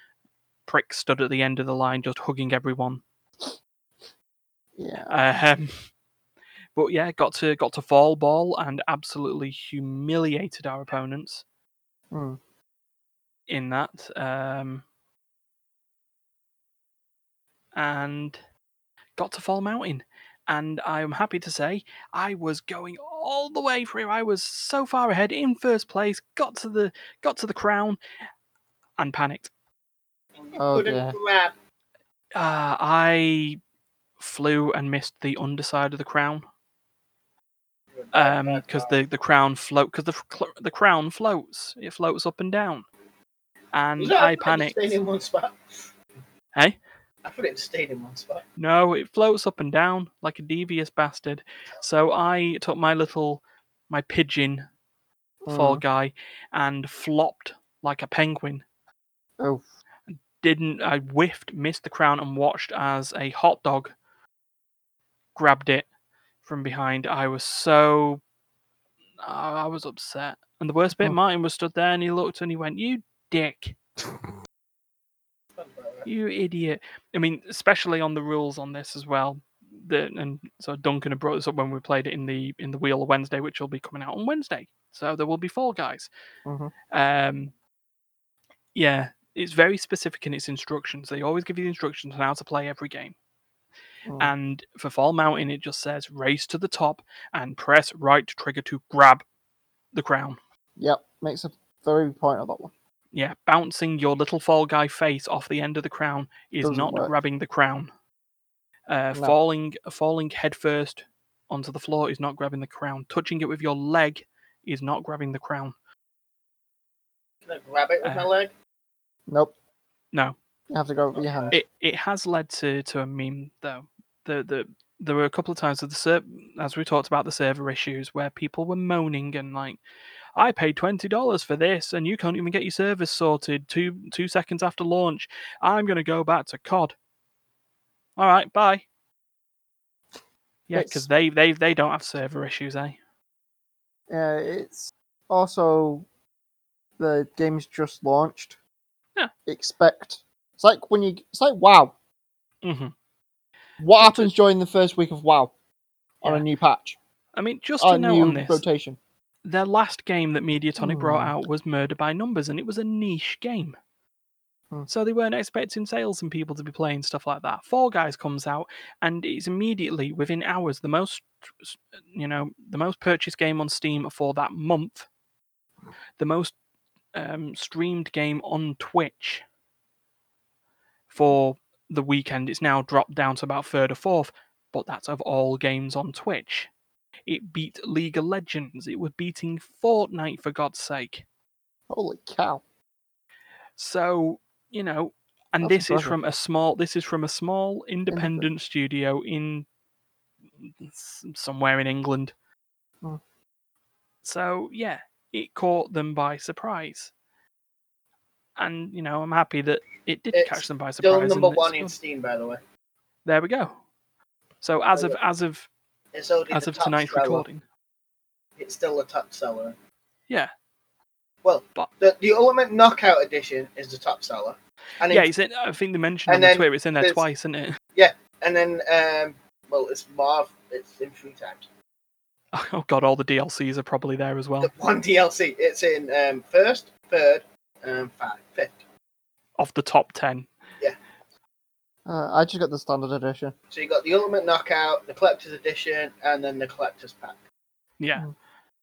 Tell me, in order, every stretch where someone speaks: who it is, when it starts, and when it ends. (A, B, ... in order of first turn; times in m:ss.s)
0:00.7-0:03.0 A
0:04.8-0:05.1 B
0:05.1-0:05.8 A
0:06.8-0:11.4 A
0:12.1-0:12.4 B
0:13.5-0:14.8 A
0:17.8-0:18.4 A
0:19.2-0:28.0 A
0:29.0-0:29.5 A
0:30.4-0:31.6 C
0:30.6-0:31.2 B
0:32.4-0:33.6 A
0:34.2-0:36.4 A
0:37.9-0:39.0 C
0:38.1-0:42.9 A
0:43.7-0:44.9 A
0:44.0-0:45.9 C
0:47.2-0:48.4 C
0:48.6-0:54.7 A
0:55.4-0:55.8 B
0:55.5-0:58.6 A
0:59.4-0:59.6 B
1:00.1-1:03.9 A
1:05.4-1:05.9 A
1:06.4-1:08.2 A
1:09.2-1:13.8 A
1:15.6-1:16.1 C
1:16.1-1:26.1 A
1:26.4-1:26.7 B
1:26.9-1:27.5 A
1:28.8-1:33.2 A
1:34.1-1:34.3 B
1:34.2-1:39.2 A
1:39.9-1:40.4 A
1:40.8-1:42.7 B
1:43.1-1:47.9 A
1:46.6-1:47.1 B
1:48.9-1:55.8 A
1:57.5-1:58.5 C
1:58.0-1:58.3 A
1:59.3-1:59.5 B
2:00.7-2:01.6 B
2:01.1-2:01.6 C
2:01.5-2:09.8 A
2:10.4-2:17.0 A
2:18.2-2:18.8 A
2:20.7-2:23.0 A
2:20.7-2:21.1 B
2:24.1-2:26.1 B
2:27.0-2:28.6 B
2:29.5-2:31.9 B
2:32.6-2:32.9 A
2:33.8-2:35.5 B
2:34.0-2:34.3 A
2:36.2-2:37.0 B
2:37.4-2:38.6 A
2:37.8-2:39.0 B
2:39.4-2:43.8 A
2:40.8-2:41.4 B
2:44.9-2:55.1 A
2:56.2-2:56.6 A
2:57.1-2:59.4 A
3:01.1-3:06.7 A
3:07.3-3:11.2 A
3:11.9-3:12.6 B
3:13.8-3:19.7 A
3:15.6-3:16.2 B
3:18.1-3:18.5 B
3:20.6-3:22.3 A
3:24.2-3:27.1 A
3:28.6-3:31.9 A
3:30.3-3:32.6 C
3:33.2-3:33.8 A
3:34.6-3:35.7 A
3:36.1-3:37.4 C
3:36.5-3:37.6 A
3:38.6-3:39.8 C
3:41.4-3:45.3 C
3:45.1-3:47.8 A
3:46.3-3:47.2 C
3:48.0-3:51.7 C
3:52.5-3:54.7 A
3:54.6-3:58.8 C
3:59.6-4:00.5 A
4:02.1-4:03.6 B
4:03.7-4:07.4 C
4:08.0-4:08.3 A